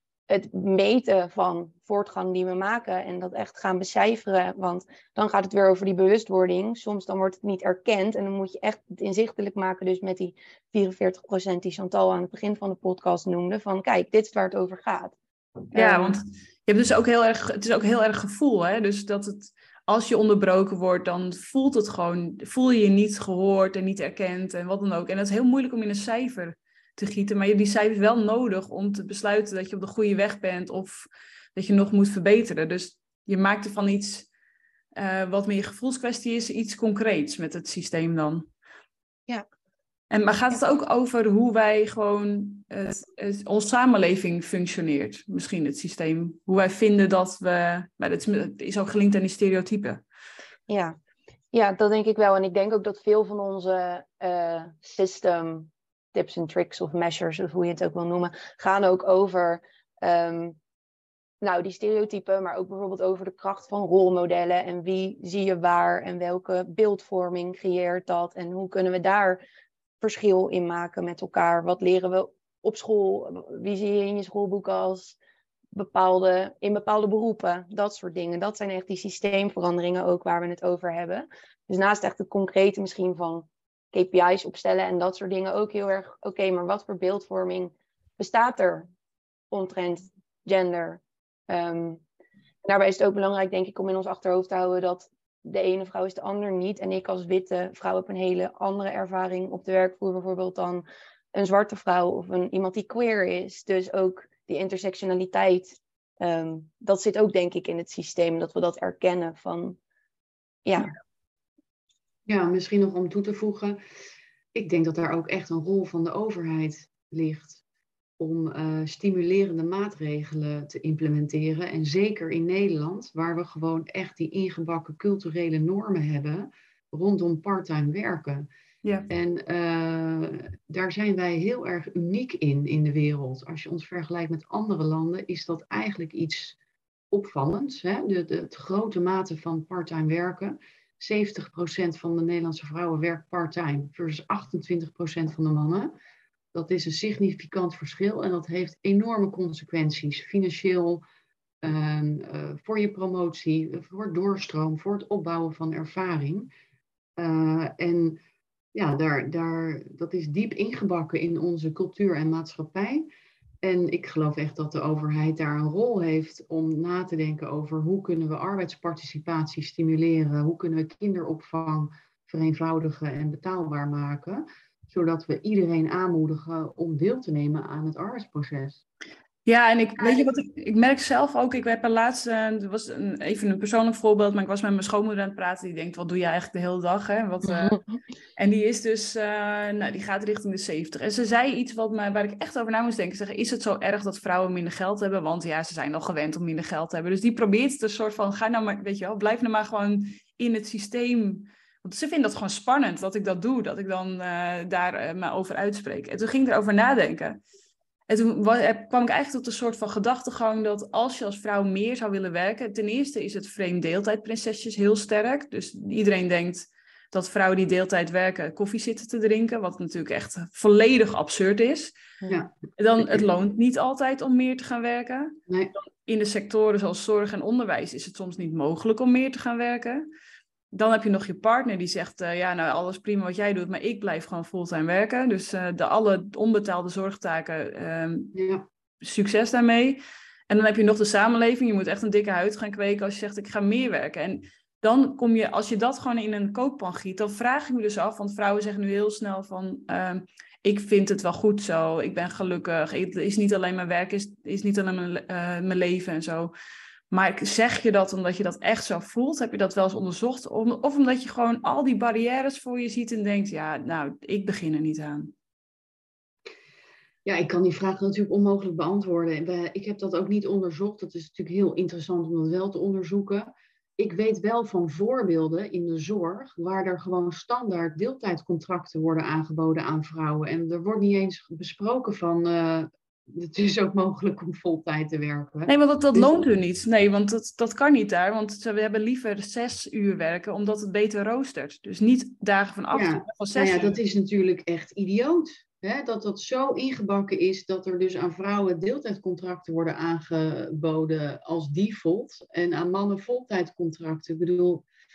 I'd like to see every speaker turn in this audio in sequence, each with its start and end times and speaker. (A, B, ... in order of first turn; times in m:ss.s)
0:00.3-0:15.1 A
0:15.7-0:16.2 A
0:15.7-0:34.3 B
0:34.9-0:38.5 B
0:40.1-0:50.0 B
0:50.7-0:51.0 A
0:51.5-1:00.6 A
1:01.4-1:09.4 A
1:10.0-1:15.2 A
1:15.7-1:28.9 A
1:29.5-1:32.0 A
1:32.6-1:49.8 A
1:50.6-1:50.9 A
1:52.3-1:53.8 C
1:54.5-1:57.6 C
1:58.2-2:08.5 C
2:09.1-2:16.6 C
2:17.1-2:25.9 C
2:26.5-2:31.0 C
2:31.6-2:36.5 C
2:37.2-2:38.2 C
2:38.7-2:43.0 C
2:43.6-2:58.8 C
2:59.4-3:07.8 B
3:07.5-3:07.8 A
3:08.4-3:27.4 B
3:28.1-3:41.9 B
3:42.3-3:43.2 C
3:42.7-3:45.4 B
3:45.5-3:45.7 C
3:46.0-3:50.1 B
3:50.7-3:58.3 B
3:58.3-3:58.6 C
3:59.0-4:16.5 B
4:17.1-4:25.3 B
4:27.2-4:46.4 C
4:45.7-4:54.0 B
4:52.9-5:04.8 C